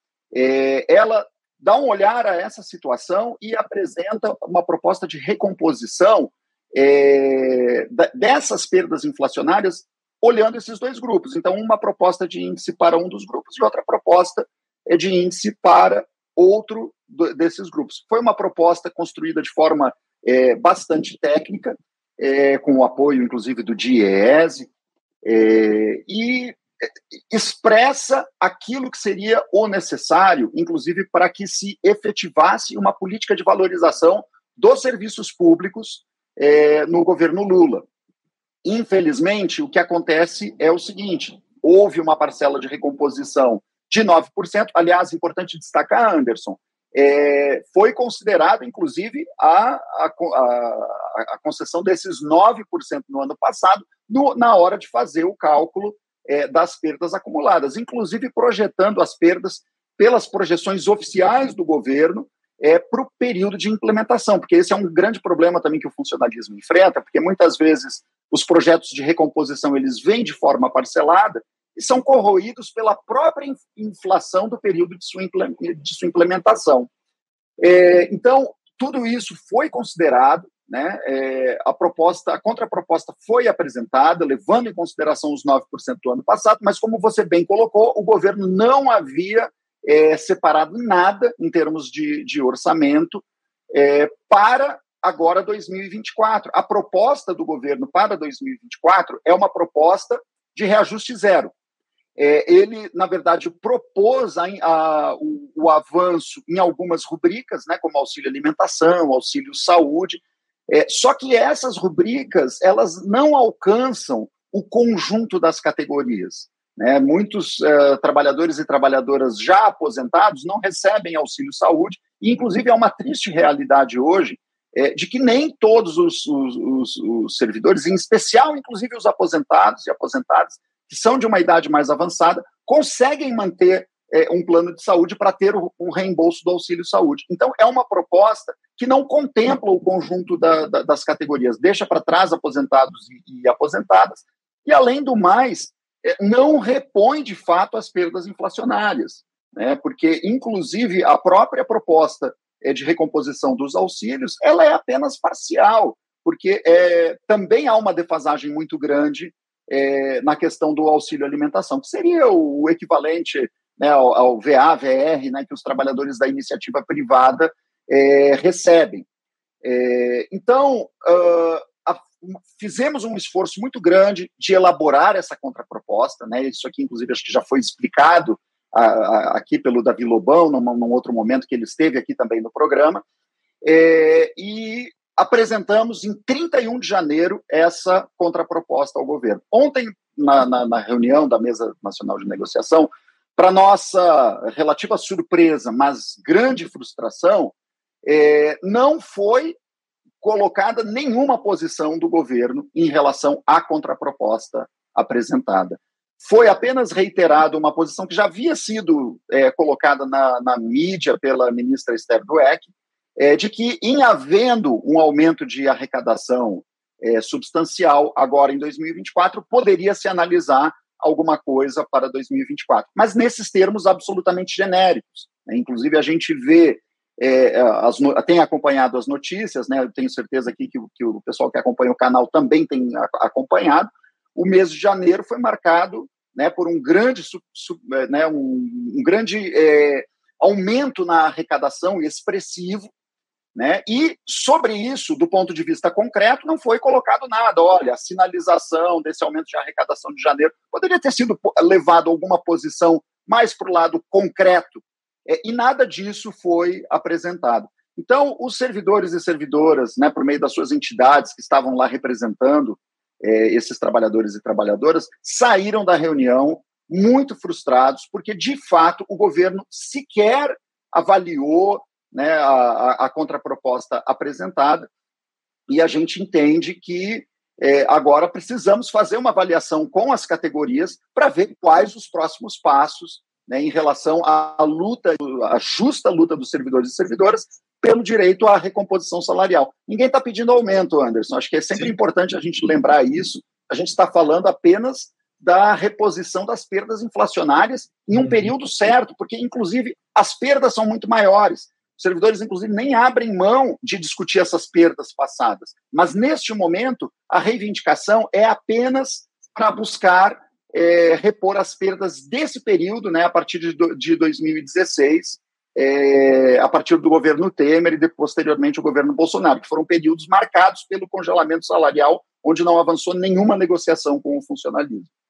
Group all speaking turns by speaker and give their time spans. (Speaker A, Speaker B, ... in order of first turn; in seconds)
Speaker A: 0.3-24.7, 25.2-26.6, 27.3-37.9, 38.6-76.9, 77.6-101.5, 102.2-169.1, 169.6-183.0, 183.6-199.6, 200.2-242.9, 243.6-274.9, 275.7-325.1